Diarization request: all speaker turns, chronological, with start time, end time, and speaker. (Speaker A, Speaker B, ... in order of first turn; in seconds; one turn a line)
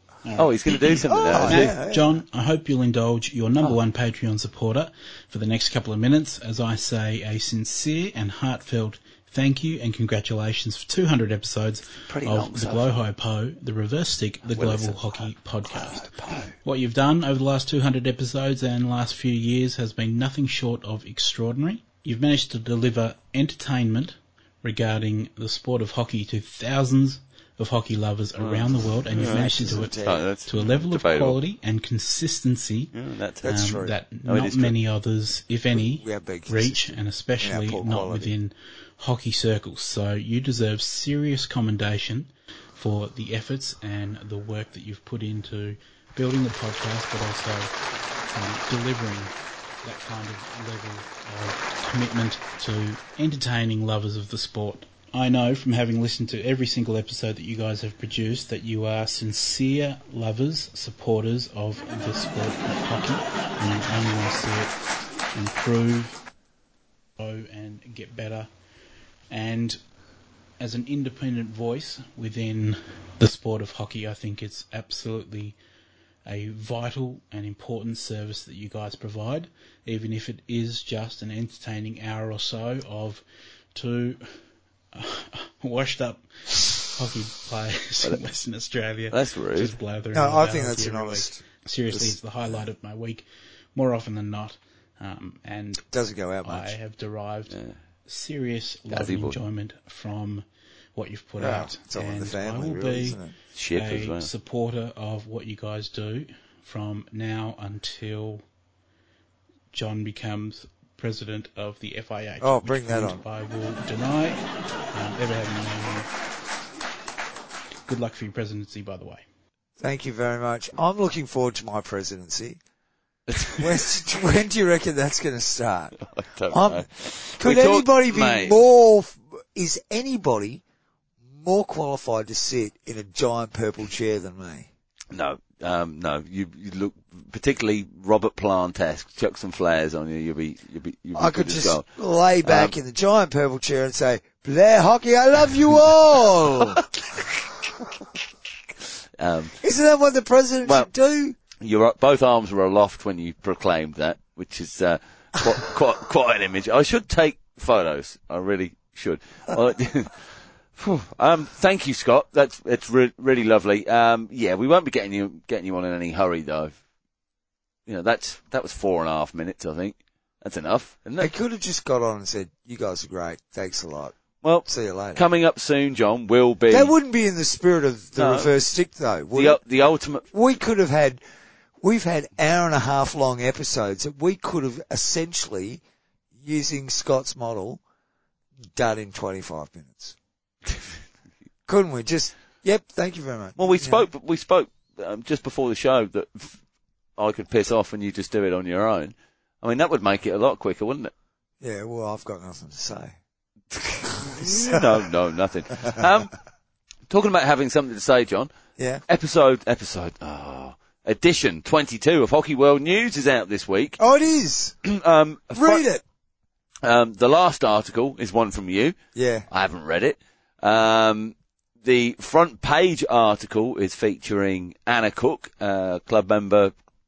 Speaker A: 0.2-16.1
Speaker B: 0.3-1.7
Speaker C: 1.1-2.2
Speaker B: 12.0-13.0
Speaker B: 14.5-15.2
Speaker C: 15.7-16.5
Speaker A: 16.6-32.9
Speaker B: 28.4-31.4
Speaker C: 29.1-30.2
Speaker B: 32.9-33.6
Speaker C: 33.4-33.9
Speaker A: 33.4-47.7
Speaker B: 34.2-34.7
Speaker C: 35.9-38.3
Speaker A: 48.3-64.7
Speaker A: 65.3-66.2
Speaker A: 67.2-68.5
Speaker A: 69.3-69.8
Speaker A: 70.6-75.6
Speaker A: 76.2-84.4
Speaker A: 84.9-95.9
Speaker B: 88.0-88.3
Speaker B: 89.1-89.7
Speaker C: 90.1-92.6
Speaker C: 95.9-96.7
Speaker A: 96.4-103.2
Speaker B: 97.5-97.8
Speaker B: 98.9-99.4
Speaker C: 101.4-103.3
Speaker B: 103.5-104.3
Speaker A: 103.7-108.4
Speaker A: 109.7-116.1
Speaker C: 112.4-113.2
Speaker A: 117.8-119.2
Speaker C: 119.8-122.6
Speaker B: 123.3-123.8
Speaker C: 123.5-126.0
Speaker B: 126.0-128.6
Speaker C: 126.5-126.9
Speaker C: 127.4-130.6
Speaker C: 131.3-134.7
Speaker B: 135.1-141.9
Speaker C: 141.2-146.8
Speaker B: 142.4-142.7
Speaker B: 146.8-147.2
Speaker B: 149.2-149.6
Speaker C: 149.6-151.4
Speaker B: 151.6-166.7
Speaker B: 167.9-171.3
Speaker C: 171.2-175.2
Speaker B: 174.4-176.9
Speaker C: 176.7-179.6
Speaker B: 178.2-178.5
Speaker B: 179.3-180.3
Speaker C: 180.3-181.2
Speaker C: 181.8-185.8
Speaker C: 186.4-187.8
Speaker C: 188.7-190.2
Speaker C: 191.7-194.1
Speaker B: 193.6-196.6
Speaker B: 197.2-201.1
Speaker C: 201.6-203.1
Speaker B: 203.7-206.3
Speaker C: 204.3-204.8
Speaker B: 207.1-208.5
Speaker C: 208.8-209.0
Speaker B: 209.1-214.0
Speaker C: 214.0-214.8
Speaker B: 214.8-215.8
Speaker C: 215.5-216.0
Speaker B: 216.8-218.9
Speaker C: 219.1-219.5
Speaker B: 219.5-226.7